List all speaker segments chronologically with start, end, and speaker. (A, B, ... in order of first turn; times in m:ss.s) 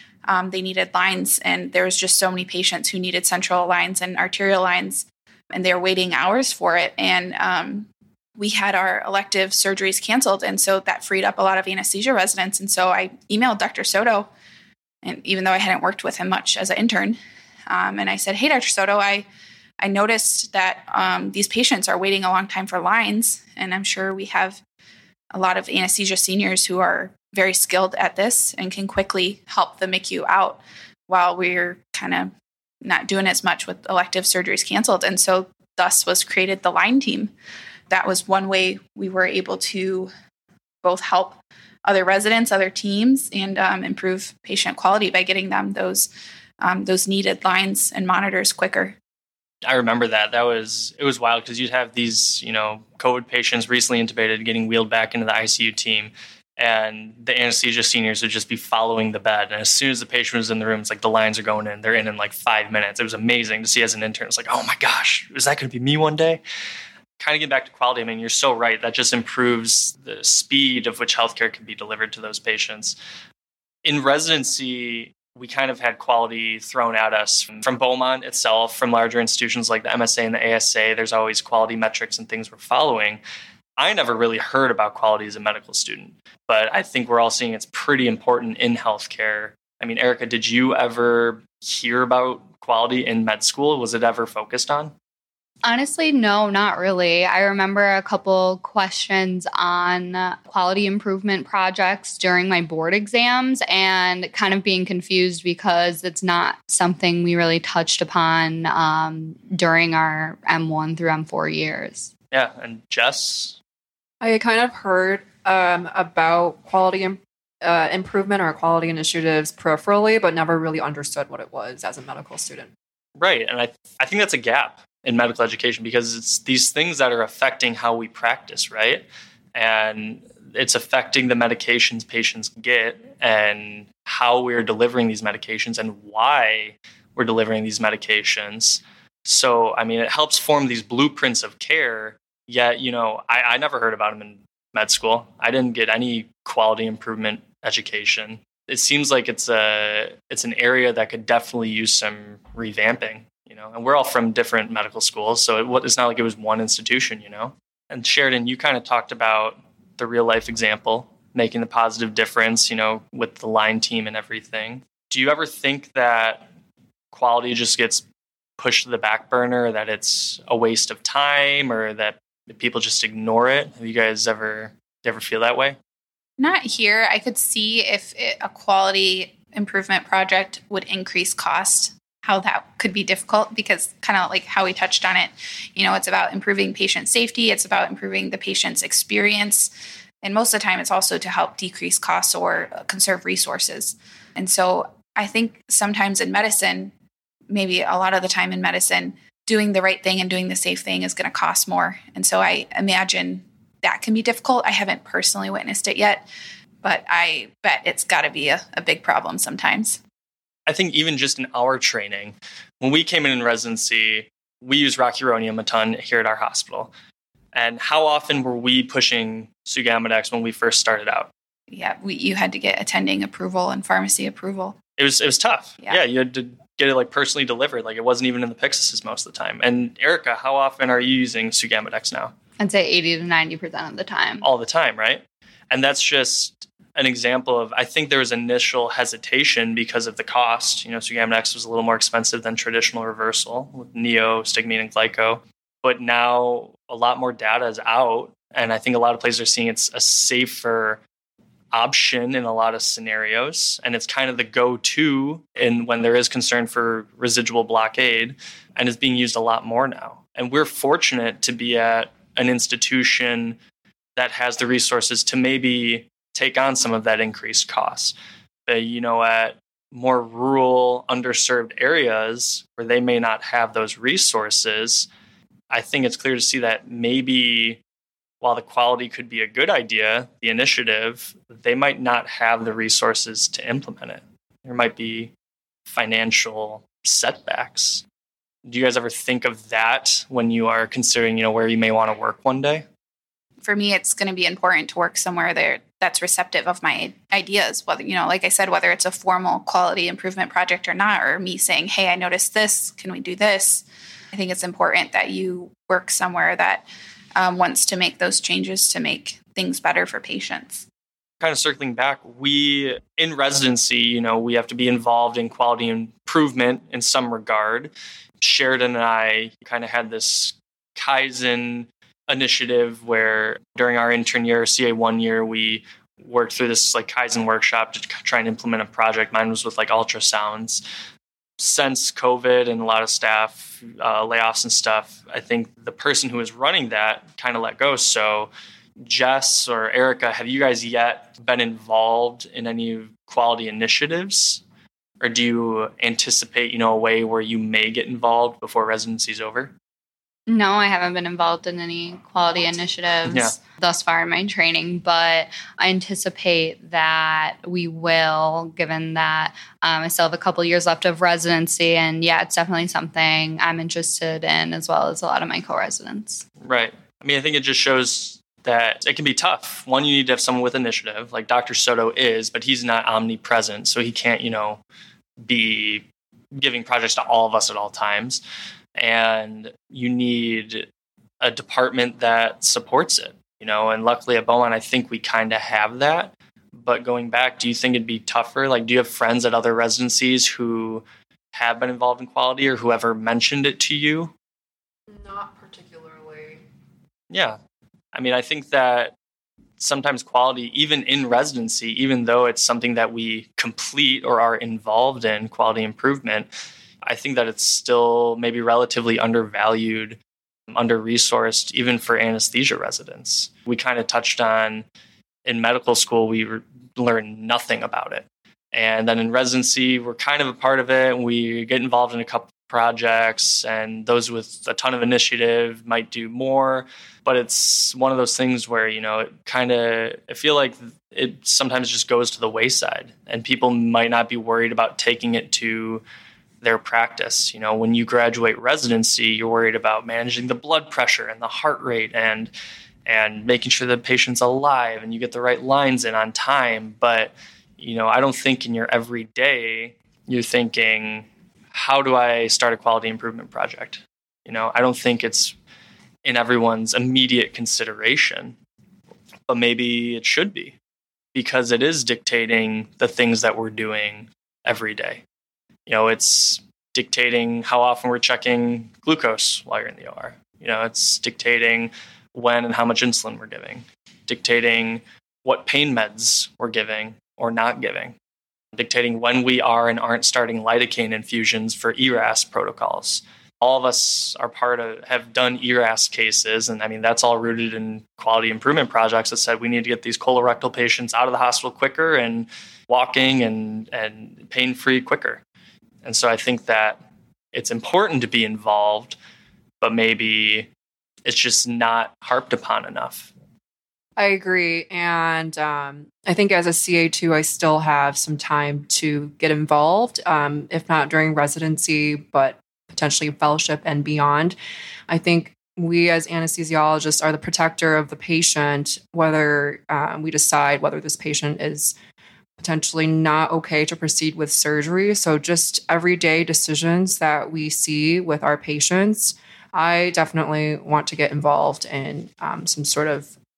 0:00.2-0:14.3 A
0:15.0-0:19.3 A
0:19.8-0:24.6 A
0:25.3-0:32.3 A
0:32.8-0:37.3 A
0:37.9-0:40.1 A
0:40.8-0:46.1 A
0:46.6-0:49.0 A
0:49.6-1:06.4 B
1:07.2-1:13.0 B
1:13.8-1:23.2 B
1:23.8-1:34.9 B
1:35.6-1:52.1 C
1:52.3-1:53.6 B
1:54.2-2:02.7 D
2:03.2-2:46.4 B
2:47.1-2:48.0 B
2:48.6-2:55.8 B
2:56.4-3:09.7 A
3:10.2-3:16.9 A
3:17.5-3:26.2 A
3:26.8-3:30.0 A
3:30.7-3:36.9 B
3:37.5-3:41.3 B
3:41.7-3:44.8 A
3:45.0-3:52.3 B
3:52.6-3:54.4 C
3:54.4-4:11.0 B
4:11.7-4:23.6 B
4:24.2-4:28.1 B
4:28.7-4:35.1 B
4:35.7-4:37.8 B
4:38.4-4:45.3 B
4:45.9-4:48.0 B
4:48.6-4:52.8 B
4:53.6-5:06.8 A
5:07.4-5:10.8 A
5:11.4-5:30.8 B
5:31.6-5:38.5 B
5:39.0-5:44.6 B
5:45.2-5:49.7 B
5:50.5-6:06.4 C
6:06.6-6:14.8 B
6:15.4-6:18.4 B
6:19.0-6:20.8 B
6:21.4-6:34.3 B
6:35.1-6:36.6 D
6:37.3-6:37.6 B
6:38.1-6:39.1 B
6:39.8-6:46.5 B
6:47.0-6:50.2 B
6:50.7-6:54.8 B
6:55.4-7:16.0 B
7:16.6-7:22.5 B
7:23.0-7:35.5 B
7:36.2-7:38.6 B
7:39.5-7:40.7 B
7:41.3-7:45.2 B
7:45.9-7:58.1 B
7:58.7-8:15.4 B
8:16.0-8:17.0 B
8:17.5-8:19.2 B
8:19.8-8:20.7 B
8:21.2-8:23.3 B
8:24.2-8:34.6 D
8:35.1-8:41.9 D
8:42.6-8:53.3 D